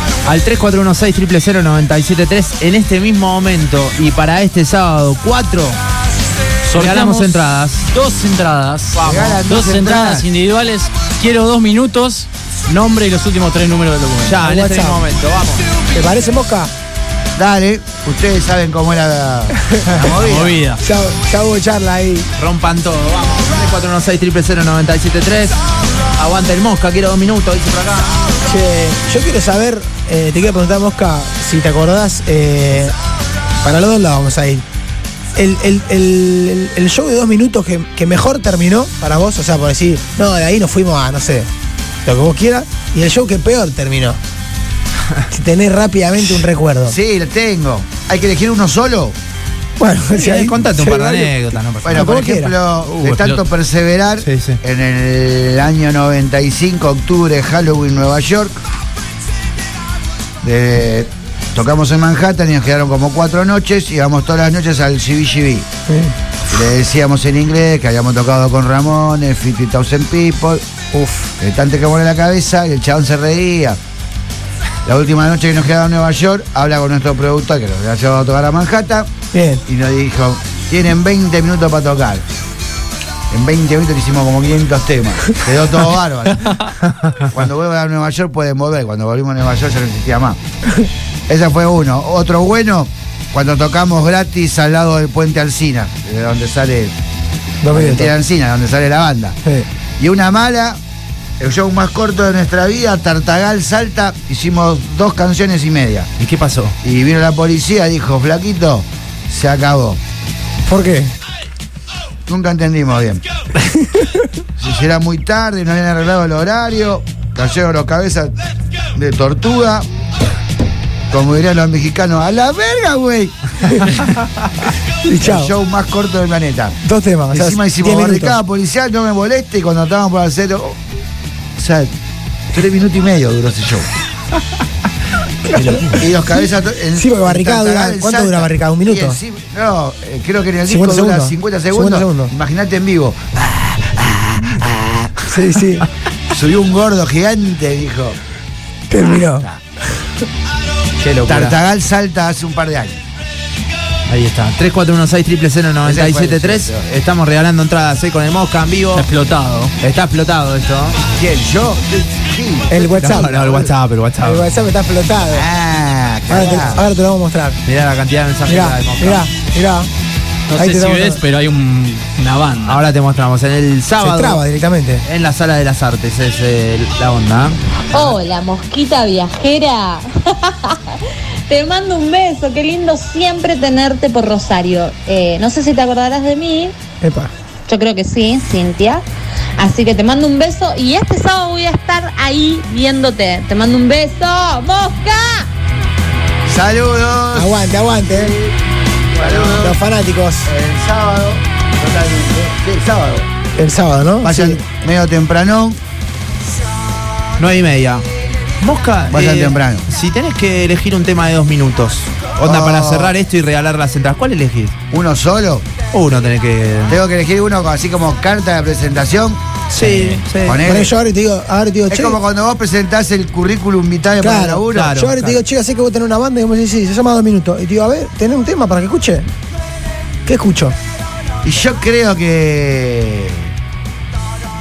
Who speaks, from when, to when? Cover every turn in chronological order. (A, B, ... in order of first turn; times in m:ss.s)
0:00.2-0:05.8 A
0:06.7-0:07.4 B
0:06.7-0:07.9 A
0:07.9-0:14.4 B
0:09.0-0:09.4 A
0:09.0-0:10.2 C
0:14.2-0:15.7 A
0:14.4-0:15.0 D
0:15.9-0:16.7 D
0:17.4-0:20.6 C
0:19.7-0:20.0 D
0:20.2-0:20.8 B
0:20.8-0:22.3 D
0:22.4-0:25.6 A
0:26.2-0:28.2 A
0:28.4-0:32.9 D
0:33.6-0:34.6 D
0:35.4-0:41.5 D
0:42.0-0:44.2 D
0:45.3-0:47.0 D
0:46.8-0:49.2 C
0:49.8-0:51.3 D
0:50.1-0:52.2 A
0:51.8-0:58.6 C
0:51.9-0:52.6 D
0:53.0-0:53.4 B
0:54.2-0:54.6 A
1:00.4-1:05.7 C
1:05.9-1:06.1 D
1:06.5-1:10.6 C
1:10.9-1:11.3 D
1:11.4-1:13.8 C
1:14.8-1:19.1 C
1:19.3-1:19.6 D
1:19.6-1:22.2 C
1:23.3-1:26.6 C
1:27.3-1:30.4 C
1:31.3-1:36.9 C
1:37.6-1:38.1 D
1:37.7-1:39.4 C
1:40.0-1:40.8 C
1:41.4-1:46.1 C
1:46.2-1:46.7 A
1:46.8-1:50.0 C
1:50.7-1:51.1 D
1:52.3-1:53.2 C
1:53.8-1:54.2 D
1:54.6-1:58.4 C
1:58.9-1:59.9 C
2:01.1-2:04.0 C
2:05.0-2:05.5 D
2:05.2-2:06.8 C
2:06.8-2:08.4 D
2:07.3-2:10.8 C
2:11.6-2:11.9 C
2:12.5-2:13.9 C
2:15.4-2:16.1 D
2:15.9-2:25.1 C
2:16.9-2:19.2 D
2:20.7-2:22.3 D
2:25.2-2:25.8 D
2:26.3-2:28.2 C
2:28.9-2:30.0 D
2:29.2-2:29.6 C
2:31.0-2:31.5 A
2:31.2-2:33.0 C
2:34.1-2:39.1 A
2:35.8-2:36.8 C
2:38.9-2:39.7 B
2:39.8-2:41.0 A
2:41.1-2:43.7 C
2:42.7-2:43.3 D
2:43.0-2:44.5 A
2:44.2-2:45.5 D
2:45.3-2:46.8 C
2:46.3-2:47.6 D
2:47.6-2:49.2 A
2:48.5-2:49.9 D
2:50.5-2:52.8 B
2:50.6-2:51.2 D
2:52.6-2:54.4 A
2:54.0-2:55.0 D
2:55.0-2:58.2 A
2:57.9-3:00.8 E
3:01.5-3:06.8 E
3:07.0-3:07.3 D
3:07.7-3:09.0 E
3:09.6-3:15.5 E
3:16.4-3:18.6 C
3:17.3-3:18.4 D
3:19.1-3:19.8 C
3:19.2-3:20.5 D
3:20.4-3:23.3 C
3:23.6-3:24.6 D
3:24.2-3:25.8 C
3:27.4-3:28.0 A
3:28.6-3:34.7 A
3:29.1-3:29.8 C
3:32.4-3:33.1 C
3:34.9-3:35.7 C
3:35.9-3:37.0 A
3:36.9-3:39.4 C
3:39.7-3:40.6 A
3:39.8-3:40.2 B
3:40.4-3:40.9 C
3:40.6-3:42.2 D
3:41.9-3:44.9 C
3:44.2-3:49.3 D
3:44.7-3:45.4 A
3:50.2-3:50.8 D
3:51.4-3:53.5 C